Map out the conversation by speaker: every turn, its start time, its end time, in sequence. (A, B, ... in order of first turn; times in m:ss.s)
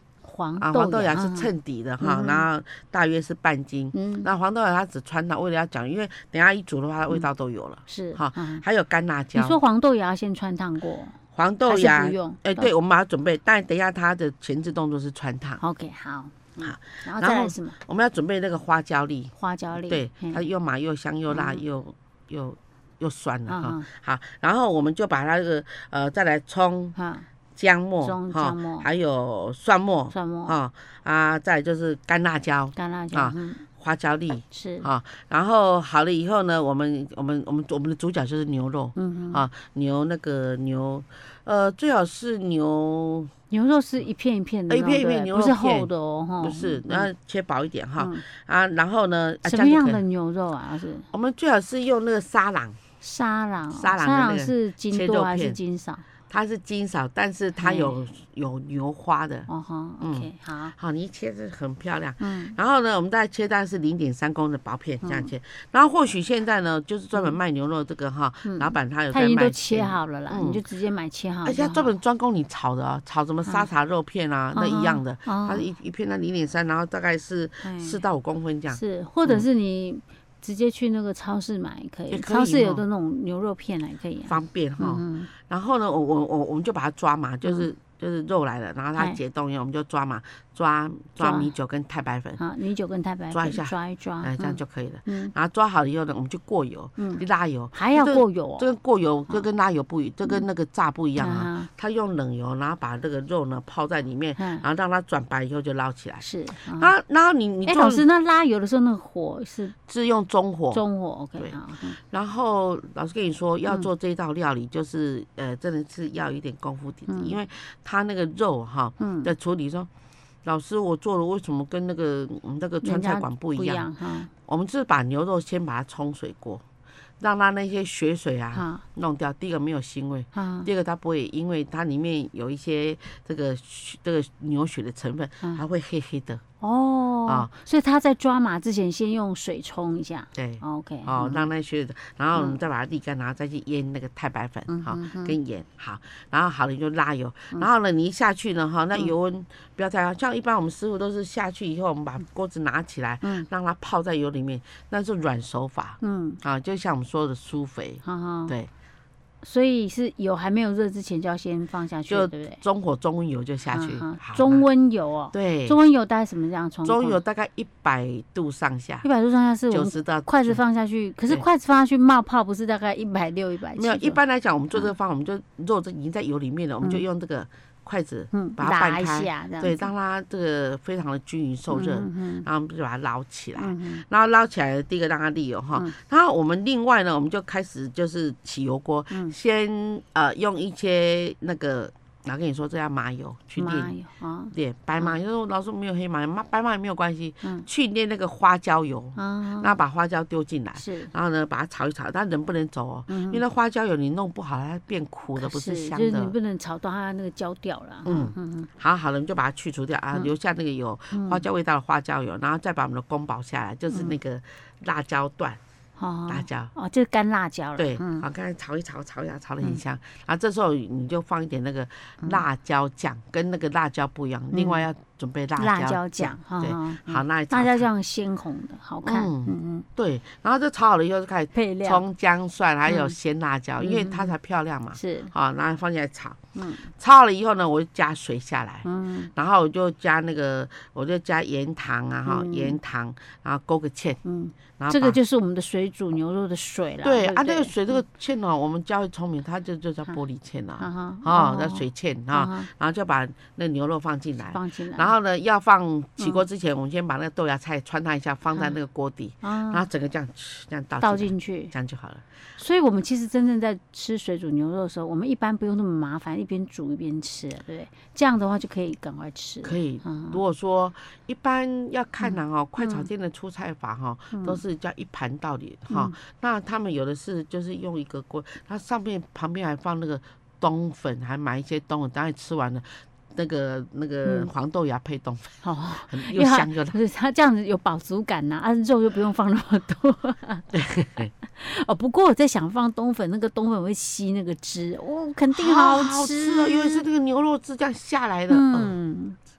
0:00.2-0:02.4 A
0:00.6-0:09.6 B
0:03.9-0:04.3 A
0:07.9-0:08.6 A
0:09.3-0:12.7 A
0:11.3-0:15.6 B
0:15.6-0:17.8 A
0:16.6-0:27.0 B
0:19.4-0:20.4 A
0:21.3-0:21.6 A
0:23.5-0:23.8 A
0:27.0-0:27.3 A
0:27.6-0:43.3 B
0:28.0-0:28.9 A
0:30.1-0:30.5 A
0:32.7-0:33.6 A
0:34.5-0:34.9 A
0:38.9-0:39.4 A
0:43.5-0:47.1 A
0:44.7-0:50.0 B
0:48.0-0:48.2 A
0:49.4-0:51.1 A
0:51.1-0:52.8 B
0:53.0-0:56.0 A
0:53.7-0:55.6 B
0:56.3-0:59.5 B
0:57.6-0:57.9 A
0:59.5-1:00.7 A
1:00.0-1:10.6 B
1:02.2-1:02.6 A
1:05.0-1:05.3 A
1:08.4-1:11.9 A
1:11.4-1:19.4 B
1:14.5-1:15.7 A
1:17.6-1:18.0 A
1:18.7-1:25.3 A
1:22.1-1:22.8 B
1:24.3-1:32.4 B
1:27.4-1:27.7 A
1:31.2-1:31.5 A
1:32.4-1:35.3 A
1:33.3-1:48.0 B
1:37.0-1:38.7 A
1:41.2-1:41.7 A
1:44.4-1:44.6 A
1:46.2-1:46.9 A
1:47.6-1:49.7 A
1:49.9-1:50.8 B
1:50.7-1:52.0 A
1:51.4-1:59.9 B
1:57.1-1:57.4 A
1:59.0-1:59.3 A
2:00.4-2:06.6 B
2:02.8-2:04.3 A
2:07.2-2:16.4 B
2:08.5-2:08.8 A
2:10.3-2:10.7 A
2:16.6-2:21.5 A
2:20.3-2:38.7 B
2:24.7-2:25.4 A
2:33.2-2:33.5 A
2:36.0-2:36.4 A
2:38.0-2:38.5 A
2:39.4-2:42.6 A
2:42.1-2:44.6 B
2:43.7-2:47.2 A
2:45.3-2:45.8 B
2:46.8-2:49.0 B
2:49.0-2:54.2 A
2:49.7-2:50.6 B
2:53.8-3:13.9 B
2:58.3-2:59.8 A
3:01.7-3:02.5 A
3:03.6-3:04.0 A
3:13.6-3:15.2 A
3:14.5-3:26.3 B
3:17.4-3:17.7 A
3:19.2-3:19.7 A
3:20.8-3:21.1 A
3:23.1-3:23.4 A
3:25.4-3:28.7 A
3:28.0-3:35.6 B
3:31.1-3:31.4 A
3:33.9-3:34.2 A
3:36.0-3:38.2 A
3:36.3-3:36.7 B
3:37.8-3:47.9 B
3:44.5-3:44.8 A
3:45.6-3:49.9 A
3:49.0-3:56.4 B
3:51.5-3:52.0 A
3:52.9-3:53.2 A
3:53.8-3:54.4 A
3:54.9-3:55.3 A
3:56.5-3:56.9 A
3:56.9-4:04.2 B
3:58.8-3:59.3 A
4:02.2-4:02.8 A
4:04.2-4:08.0 A
4:04.8-4:05.2 B
4:07.0-4:22.2 B
4:10.8-4:12.7 A
4:14.5-4:15.1 A
4:16.2-4:16.4 A
4:19.4-4:19.8 A
4:21.0-4:21.7 A
4:22.6-4:30.4 A
4:29.6-4:47.0 B
4:32.2-4:33.1 A
4:34.3-4:34.6 A
4:35.9-4:36.1 A
4:44.2-4:44.5 A
4:45.6-4:50.8 A
4:50.7-4:51.3 B
4:51.4-4:57.0 A
4:55.5-4:59.0 B
4:58.5-4:59.4 A